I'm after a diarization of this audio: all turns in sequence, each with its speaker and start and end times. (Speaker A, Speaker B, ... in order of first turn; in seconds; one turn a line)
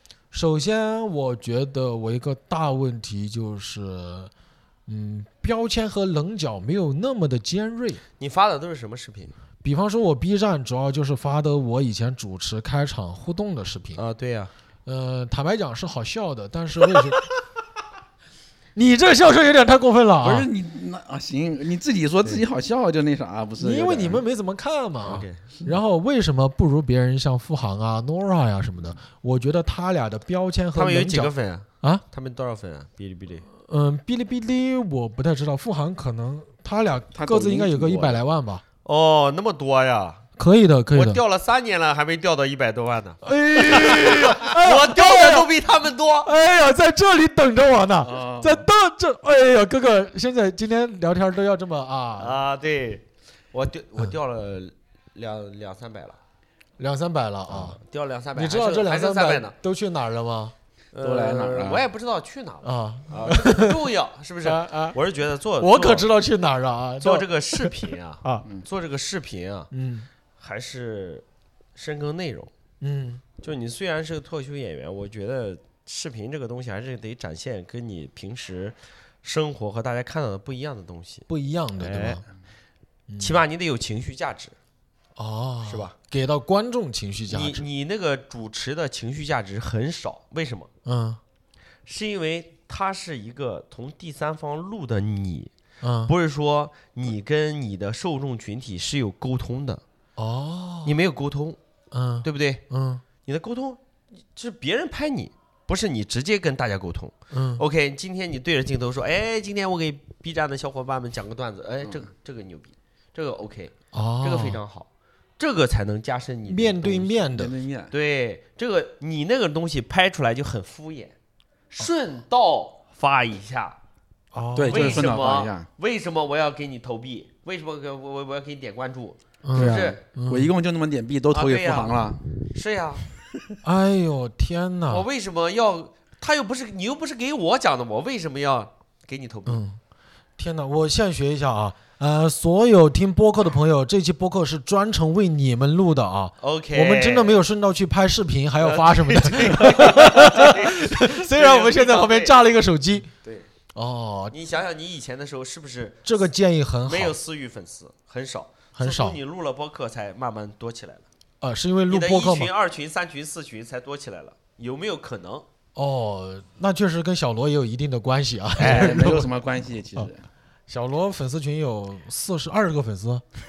Speaker A: 0.3-4.3
Speaker A: 4.9-8.0
Speaker B: 8.2-9.3
Speaker A: 9.6-14.0
Speaker B: 14.0-14.5
Speaker A: 14.9-17.2
Speaker A: 18.8-20.5
Speaker C: 20.2-24.2
Speaker A: 23.6-32.0
Speaker B: 25.1-25.4
Speaker B: 30.7-33.5
Speaker A: 33.5-38.6
Speaker C: 37.1-38.2
Speaker B: 38.9-40.2
Speaker A: 40.4-41.2
Speaker B: 40.9-46.3
Speaker A: 43.2-45.5
Speaker A: 46.2-52.4
Speaker C: 48.0-48.7
Speaker B: 52.2-56.2
Speaker A: 56.8-57.8
Speaker B: 57.5-59.5
Speaker A: 58.4-60.5
Speaker B: 60.9-66.1
Speaker C: 61.0-61.9
Speaker A: 62.6-63.8
Speaker A: 64.4-65.0
Speaker A: 65.6-68.5
Speaker B: 67.0-69.7
Speaker A: 69.7-70.1
Speaker B: 70.4-71.2
Speaker B: 71.8-72.5
Speaker A: 72.8-73.2
Speaker B: 73.4-81.3
Speaker A: 81.3-82.2
Speaker B: 81.8-82.2
Speaker A: 83.1-83.4
Speaker B: 83.2-84.5
Speaker A: 85.2-87.7
Speaker B: 85.7-85.9
Speaker B: 87.3-90.7
Speaker A: 90.8-91.2
Speaker B: 91.9-95.5
Speaker A: 95.8-96.1
Speaker B: 96.1-99.8
Speaker A: 100.2-101.0
Speaker B: 100.8-101.6
Speaker A: 101.9-103.0
Speaker B: 102.2-102.6
Speaker B: 103.2-114.9
Speaker A: 107.3-107.6
Speaker A: 113.9-114.6
Speaker B: 115.4-117.2
Speaker A: 116.5-117.5
Speaker C: 117.4-117.9
Speaker B: 117.9-121.1
Speaker B: 121.7-123.8
Speaker A: 124.3-125.1
Speaker C: 124.6-125.7
Speaker B: 124.7-130.0
Speaker A: 129.4-130.5
Speaker C: 129.5-132.2
Speaker B: 131.3-133.1
Speaker A: 133.6-135.1
Speaker B: 134.9-139.6
Speaker A: 139.5-139.8
Speaker A: 140.4-153.1
Speaker B: 146.4-147.4
Speaker B: 148.6-152.4
Speaker B: 153.2-153.5
Speaker A: 153.8-154.4
Speaker B: 154.3-156.1
Speaker A: 156.1-157.2
Speaker B: 156.9-161.1
Speaker A: 158.8-159.2
Speaker A: 161.4-162.5
Speaker B: 161.9-165.5
Speaker A: 165.8-169.3
Speaker C: 168.6-170.3
Speaker B: 168.6-169.1
Speaker A: 170.7-173.2